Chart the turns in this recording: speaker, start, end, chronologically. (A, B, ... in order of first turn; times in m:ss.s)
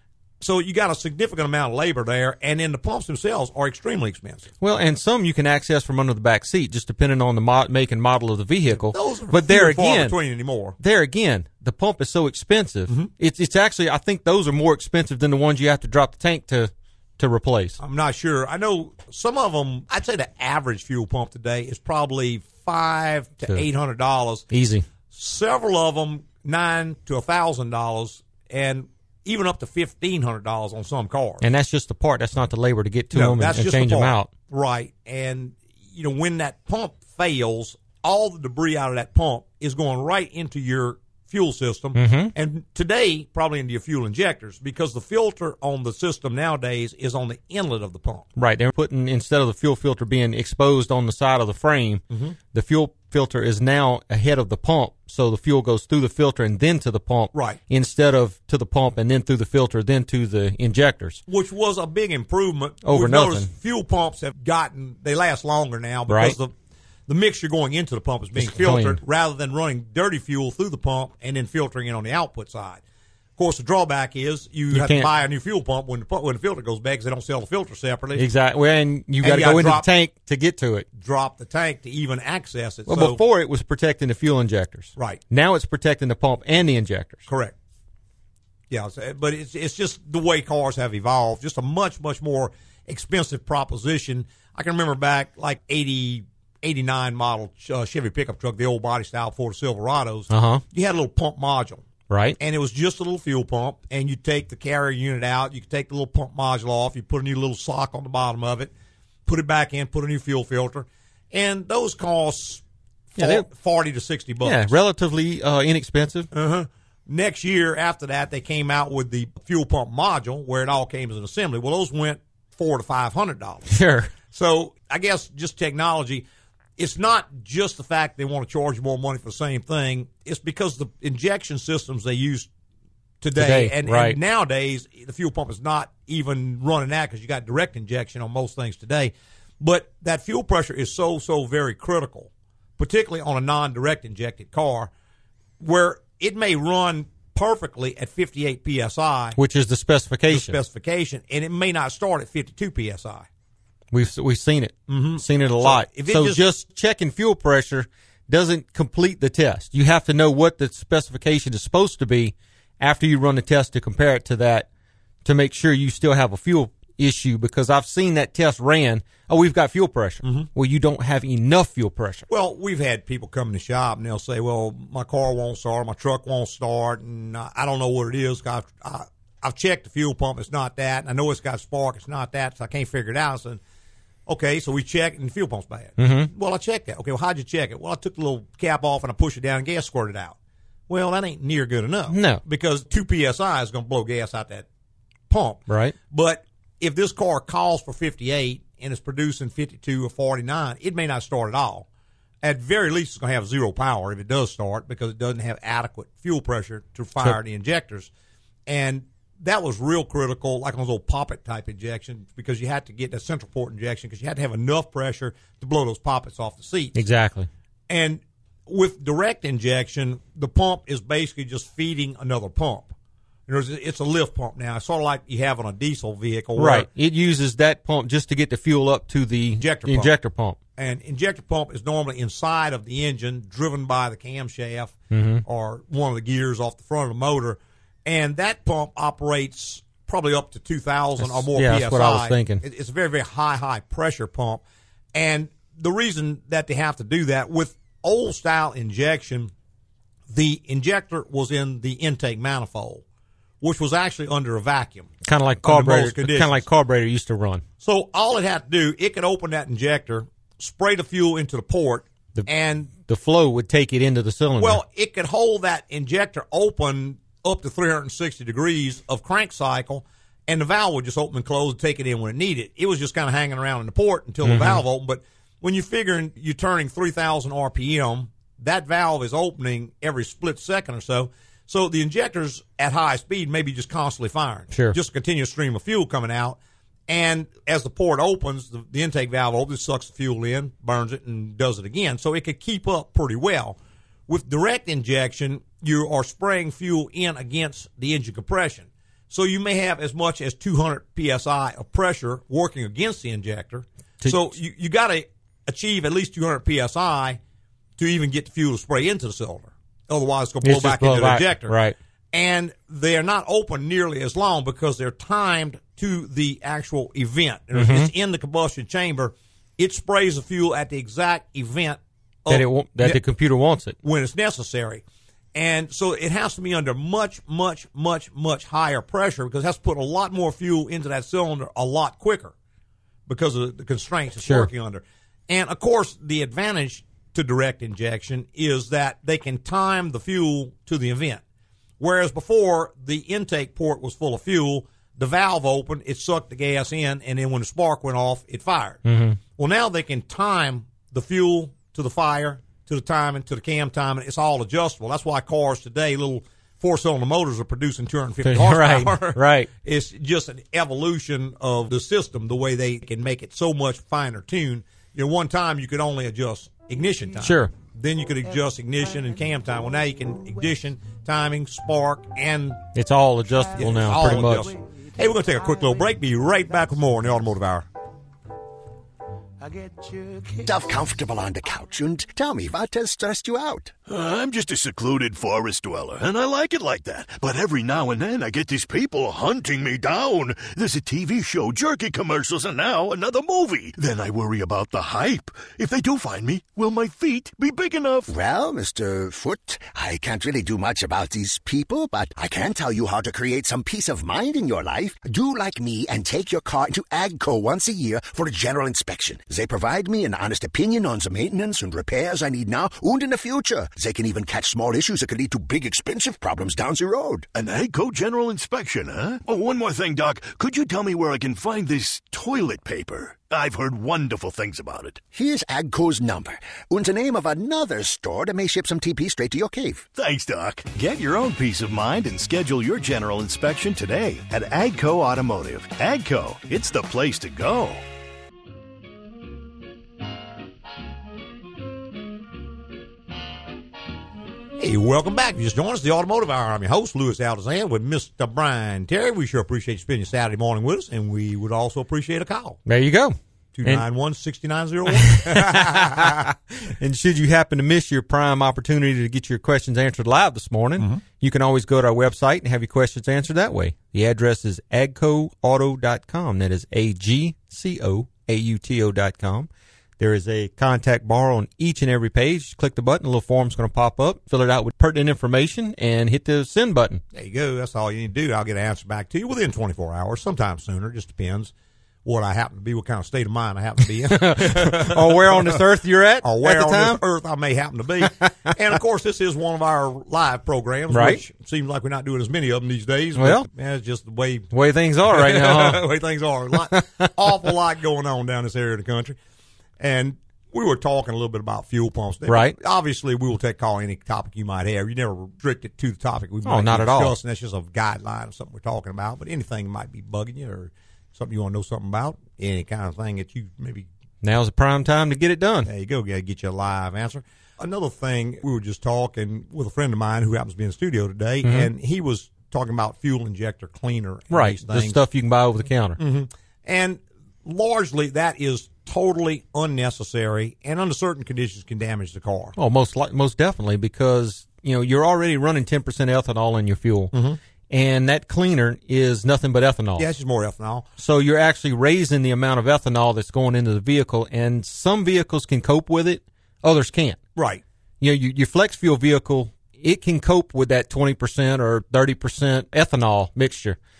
0:00.4-0:04.5 A
0:04.6-0:10.1 B
0:08.7-0:10.8 A
0:10.8-0:17.8 B
0:17.8-0:24.5 A
0:24.5-0:24.8 B
0:25.1-0:31.4 A
0:31.4-0:34.3 B
0:33.1-0:48.3 A
0:41.9-0:42.3 B
0:48.4-0:52.0 B
0:52.1-0:52.4 A
0:52.5-1:01.2 B
0:57.3-0:57.6 A
1:01.3-1:06.5 A
1:02.8-1:03.5 B
1:06.1-1:06.4 B
1:07.1-1:12.8 A
1:08.4-1:09.0 B
1:13.4-1:18.2 A
1:14.7-1:15.1 B
1:18.2-1:20.9 B
1:19.2-1:19.9 A
1:21.0-1:23.2 A
1:22.9-1:27.3 B
1:25.0-1:25.2 A
1:27.3-1:27.5 A
1:28.7-1:41.8 A
1:40.3-1:40.6 B
1:42.1-1:42.4 B
1:42.4-1:48.7 A
1:49.2-1:52.6 A
1:53.2-1:54.7 A
1:53.2-1:53.4 B
1:54.4-1:56.3 B
1:56.3-2:12.5 A
2:03.7-2:04.1 B
2:13.2-2:24.9 A
2:13.4-2:14.2 B
2:25.6-2:29.4 A
2:29.4-2:30.6 B
2:30.3-2:33.3 A
2:33.9-2:44.7 B
2:34.9-2:36.4 A
2:45.2-2:52.2 B
2:50.2-2:50.5 A
2:52.3-3:03.6 A
3:04.3-3:10.4 A
3:06.0-3:06.3 B
3:10.9-3:14.6 A
3:12.1-3:12.4 B
3:15.3-3:21.8 A
3:15.7-3:15.9 B
3:22.4-3:28.1 A
3:28.7-3:37.0 A
3:36.9-3:37.5 B
3:37.9-3:42.9 A
3:43.5-3:46.9 A
3:46.6-3:50.6 B
3:49.6-3:50.1 A
3:50.8-4:04.6 A
3:55.1-3:55.4 B
4:01.2-4:02.6 B
4:05.1-4:09.5 A
4:10.3-4:13.0 A
4:13.6-4:15.1 A
4:15.2-4:17.6 B
4:15.6-4:16.6 A
4:17.8-4:22.9 A
4:22.3-4:24.8 B
4:24.6-4:53.8 A
4:34.4-4:34.8 B
4:54.3-5:07.4 A
5:08.0-5:11.8 A
5:10.6-5:12.0 B
5:12.3-5:23.2 A
5:17.7-5:18.1 B
5:22.5-5:24.0 B
5:24.0-5:25.0 A
5:25.5-5:32.5 A
5:33.3-5:41.4 A
5:42.0-5:49.0 A
5:49.0-5:49.4 B
5:49.6-6:12.9 A
5:58.4-5:59.7 B
6:07.4-6:07.7 B
6:12.9-6:14.7 B
6:13.7-6:17.9 A
6:20.6-6:23.9 C
6:24.0-6:38.3 D
6:38.3-6:57.5 C
6:57.5-7:05.2 D
7:05.3-7:10.0 C
7:10.1-7:18.0 D
7:24.8-7:32.8 A
7:32.8-7:34.0 B
7:33.7-7:36.5 A
7:35.3-7:49.7 B
7:50.2-7:57.2 B
7:57.3-8:01.7 A
8:02.2-8:05.8 A
8:04.3-8:07.2 B
8:06.4-8:14.7 A
8:11.1-8:11.4 B
8:13.4-8:13.6 B
8:14.7-8:16.0 B
8:15.2-8:19.4 A
8:20.0-8:34.1 A
8:22.5-8:22.8 B
8:26.6-8:27.3 B
8:34.4-8:35.9 B
8:35.8-8:45.2 A
8:41.6-8:41.9 B
8:44.5-8:46.2 B
8:46.2-8:52.7 A
8:52.8-8:57.3 B
8:57.3-8:57.6 A
8:57.9-9:00.2 B
9:00.2-9:01.1 A
9:01.2-9:07.4 B
9:07.6-9:07.8 A
9:08.2-9:14.0 B